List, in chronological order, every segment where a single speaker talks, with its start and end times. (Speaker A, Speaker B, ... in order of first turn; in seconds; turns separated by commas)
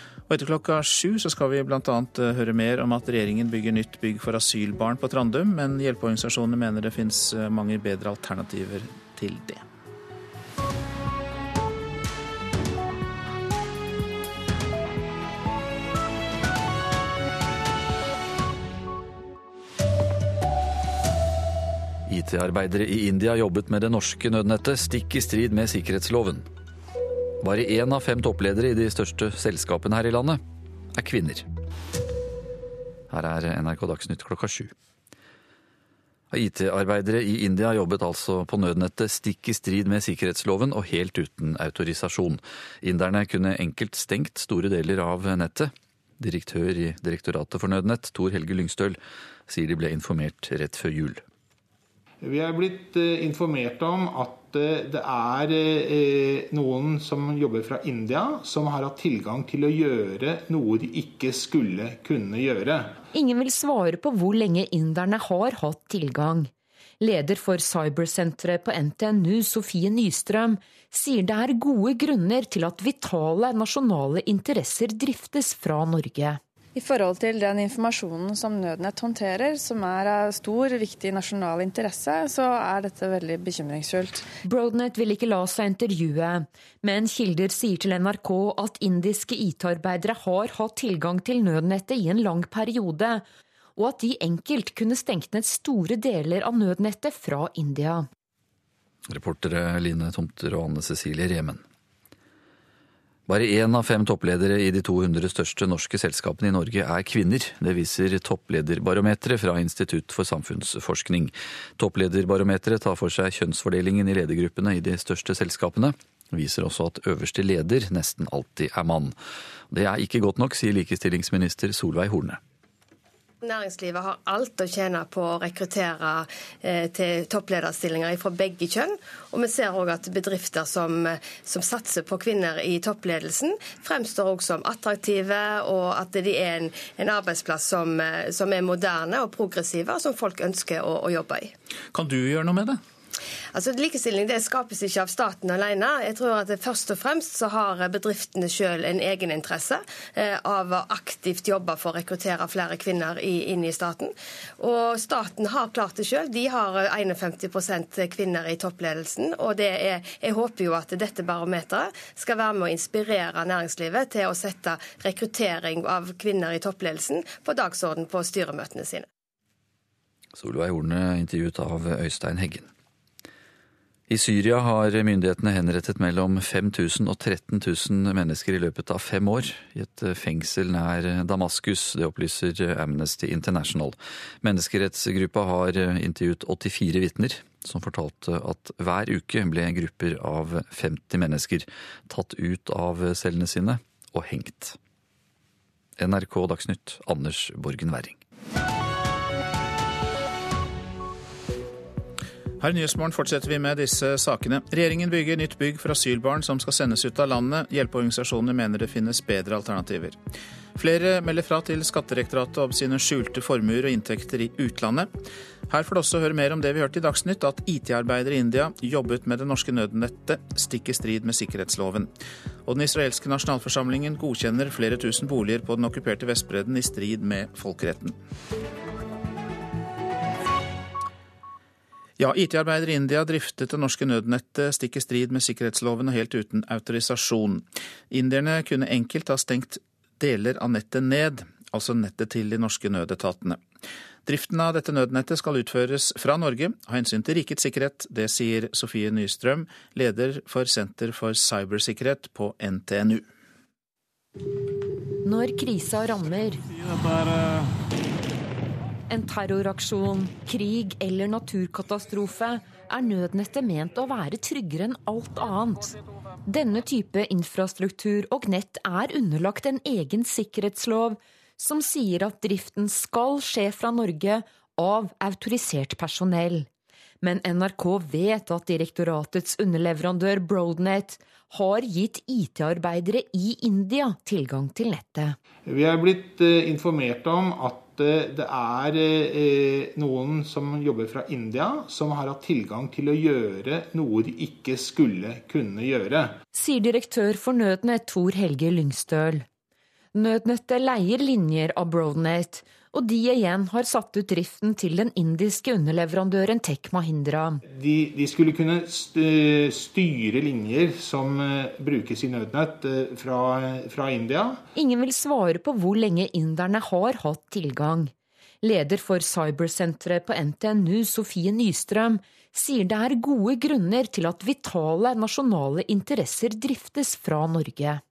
Speaker A: 0.3-9.6, Speaker B: 22.1-26.5, Speaker B: 27.4-30.4, Speaker B: 30.9-31.5, Speaker B: 33.1-34.7, Speaker B: 36.3-51.2, Speaker C: 52.2-62.9, Speaker D: 63.1-76.4, Speaker E: 76.8-84.3, Speaker D: 84.4-93.2, Speaker D: 93.8-98.1, Speaker B: 99.1-101.6, Speaker B: 103.3-119.2, Speaker B: 119.7-122.4, Speaker F: 123.4-141.5, Speaker A: 141.9-142.8, Speaker F: 143.5-169.1, Speaker B: 170.4-172.7, Speaker B: 174.1-194.8, Speaker B: 196.0-198.2, Speaker A: 202.6-210.2, Speaker A: 210.8-215.1, Speaker A: 215.7-222.1, Speaker A: 222.7-228.2, Speaker A: 232.2-243.6, Speaker A: 244.2-253.3, Speaker D: 255.2-256.6, Speaker D: 259.1-265.9, Speaker D: 266.5-276.7, Speaker D: 277.2-285.4, Speaker C: 285.7-296.4, Speaker D: 296.5-299.4, Speaker D: 300.1-307.6, Speaker C: 307.7-314.7, Speaker D: 314.8-328.0